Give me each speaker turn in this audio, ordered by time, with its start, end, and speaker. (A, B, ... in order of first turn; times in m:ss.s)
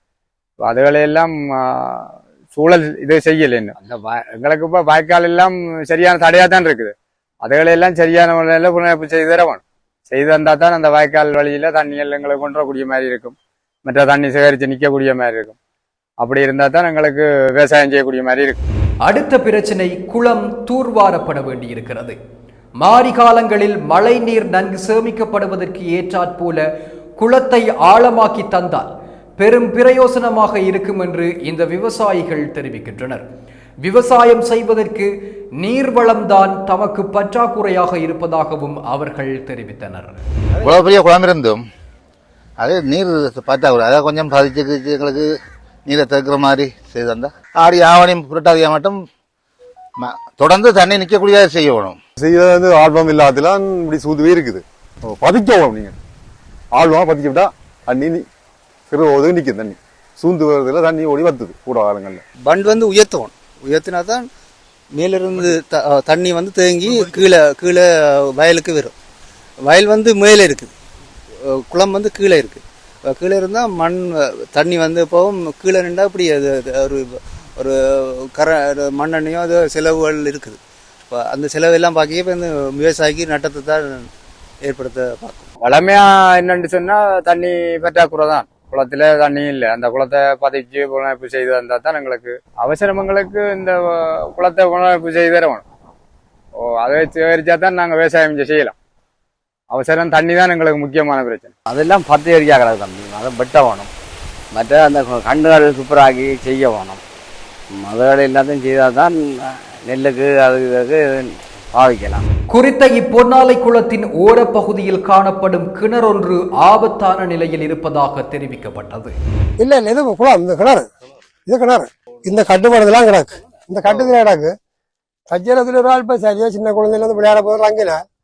0:00.6-0:15.6 A
0:16.2-0:18.6 A
0:19.0-0:22.2 B
0:22.8-0:26.6 B
0:27.2-0:33.2 B
0:33.8-0:40.2 B
0:40.6-0:41.6 C
0:42.6-0:45.3 C
0:45.9-0:49.0 C
0:50.0-0:52.0 C
0:52.2-0:56.0 D
0:56.7-0:58.2 D
0:58.9-1:02.2 D
1:02.4-1:04.2 E
1:04.9-1:08.9 E
1:09.6-1:10.7 E
1:11.4-1:20.6 E
1:21.1-1:24.1 E
1:24.6-1:25.4 E
1:25.6-1:33.8 A
1:34.4-1:35.6 A
1:36.8-1:38.7 A
1:39.7-1:41.5 A
1:41.7-1:43.9 F
1:44.5-1:47.0 F
1:47.8-1:52.2 F
1:52.5-1:59.1 B
1:59.6-2:00.9 G
2:01.5-2:04.5 G
2:05.3-2:08.0 G